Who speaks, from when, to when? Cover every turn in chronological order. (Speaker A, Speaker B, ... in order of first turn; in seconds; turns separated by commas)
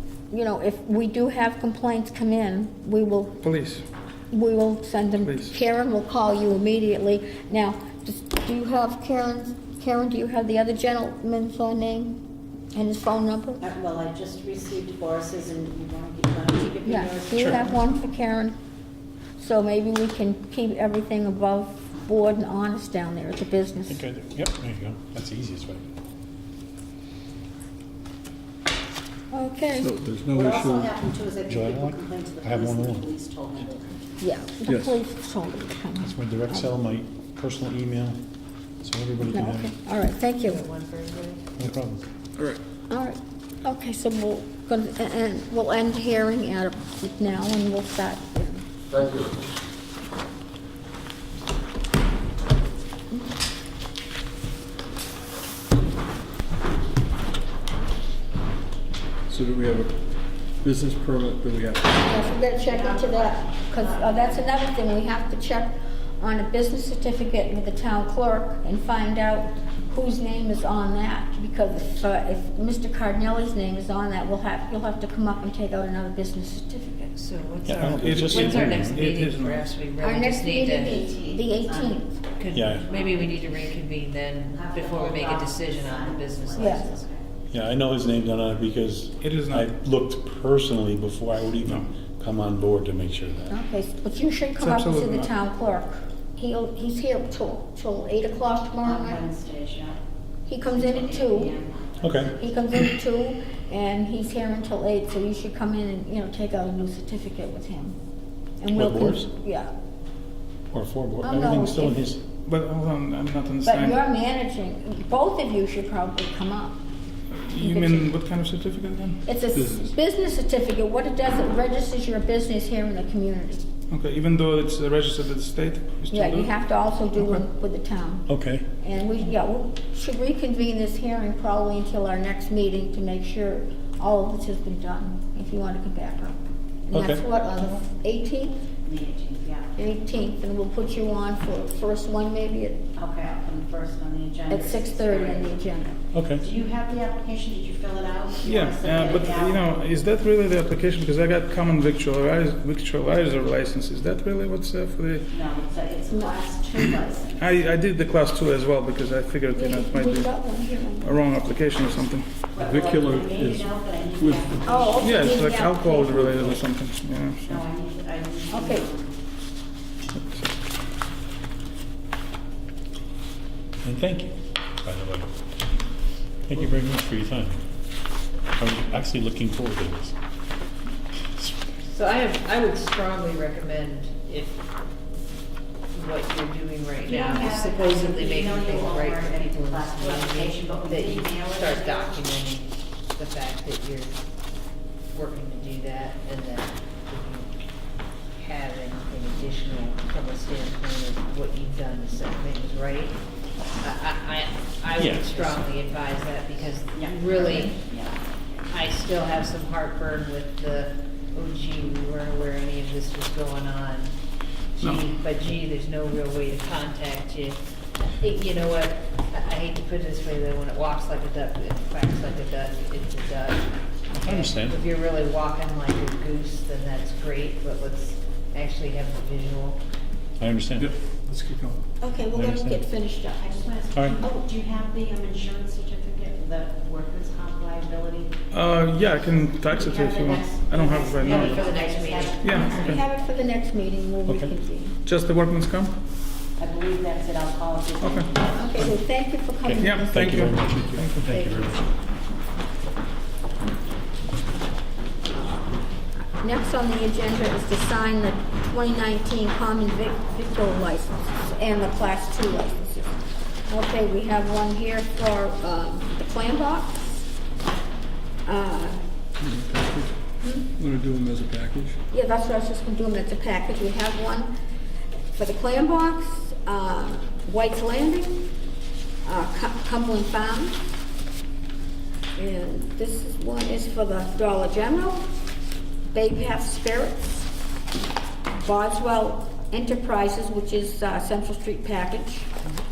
Speaker A: 0.3-3.4, Speaker B: 3.4-3.8, Speaker A: 4.3-12.2, Speaker B: 5.2-5.5, Speaker A: 12.7-13.6, Speaker C: 13.6-17.7, Speaker A: 16.8-18.6, Speaker D: 17.4-17.7, Speaker A: 19.4-24.0, Speaker D: 23.9-25.9, Speaker A: 29.3-29.9, Speaker E: 29.8-30.9, Speaker C: 30.3-34.1, Speaker D: 31.4-33.1, Speaker A: 34.2-36.6, Speaker E: 34.7-34.9, Speaker D: 36.0-38.2, Speaker D: 38.8-39.7, Speaker A: 39.3-40.6, Speaker F: 40.4-41.5, Speaker D: 41.6-42.0, Speaker A: 42.9-49.3, Speaker E: 59.3-59.9, Speaker E: 60.6-62.0, Speaker A: 62.0-77.1, Speaker C: 62.6-64.4, Speaker F: 77.1-81.1, Speaker D: 77.7-79.0, Speaker B: 77.8-79.7, Speaker A: 80.0-82.2, Speaker C: 80.9-82.0, Speaker F: 82.4-87.0, Speaker D: 82.5-82.8, Speaker C: 82.7-83.4, Speaker C: 84.5-87.2, Speaker A: 86.5-86.8, Speaker D: 87.5-93.5, Speaker B: 89.2-89.7, Speaker A: 93.5-99.2, Speaker B: 94.6-95.3, Speaker C: 98.8-100.0, Speaker A: 100.5-101.5, Speaker C: 100.7-102.2, Speaker D: 102.0-102.3, Speaker A: 102.3-108.0, Speaker A: 108.6-109.7, Speaker D: 108.7-109.3, Speaker D: 110.7-112.2, Speaker A: 111.2-112.0, Speaker B: 112.5-114.0, Speaker A: 113.6-116.8, Speaker B: 117.3-119.2, Speaker A: 117.5-118.1, Speaker A: 119.2-123.6, Speaker B: 123.9-126.5, Speaker A: 126.1-128.3, Speaker D: 128.3-128.7, Speaker A: 128.8-138.6, Speaker D: 136.9-137.2, Speaker C: 138.8-139.7, Speaker A: 139.8-142.8, Speaker C: 142.9-145.6, Speaker A: 144.5-145.9, Speaker D: 146.1-146.4, Speaker C: 146.4-149.6, Speaker B: 148.4-155.3, Speaker C: 155.3-157.5, Speaker B: 157.4-160.3, Speaker A: 159.5-161.2, Speaker B: 161.0-162.2, Speaker C: 162.5-165.3, Speaker E: 162.6-164.6, Speaker A: 164.6-166.6, Speaker B: 165.0-167.5, Speaker C: 167.4-169.1, Speaker A: 168.5-168.9, Speaker B: 170.2-170.5, Speaker D: 173.8-175.3, Speaker D: 176.5-177.6, Speaker D: 178.6-180.1, Speaker F: 181.9-184.6, Speaker F: 185.9-194.1, Speaker C: 187.0-192.2, Speaker F: 195.1-197.5, Speaker F: 198.3-203.2, Speaker F: 203.8-207.8, Speaker D: 204.9-205.7, Speaker C: 206.9-208.2, Speaker F: 208.7-214.1, Speaker F: 214.7-229.8, Speaker D: 224.1-224.8, Speaker D: 230.4-230.9, Speaker B: 230.8-231.8, Speaker A: 232.0-233.5, Speaker D: 232.3-232.8, Speaker C: 233.4-238.3, Speaker D: 233.9-234.2, Speaker B: 238.5-241.6, Speaker C: 239.7-242.7, Speaker F: 241.2-242.4, Speaker B: 242.4-243.0, Speaker A: 242.5-244.9, Speaker D: 244.2-244.5, Speaker B: 245.0-245.9, Speaker C: 246.6-248.5, Speaker B: 248.0-248.3, Speaker A: 248.5-250.5, Speaker D: 249.6-251.8, Speaker B: 249.8-251.4, Speaker F: 251.2-251.8, Speaker A: 255.3-267.2, Speaker A: 268.4-269.0, Speaker E: 269.4-270.1, Speaker A: 270.4-270.7, Speaker E: 270.8-272.0, Speaker A: 272.1-274.5, Speaker A: 275.3-278.4, Speaker A: 279.2-280.8, Speaker A: 282.4-285.2, Speaker A: 286.1-287.4, Speaker A: 288.5-292.5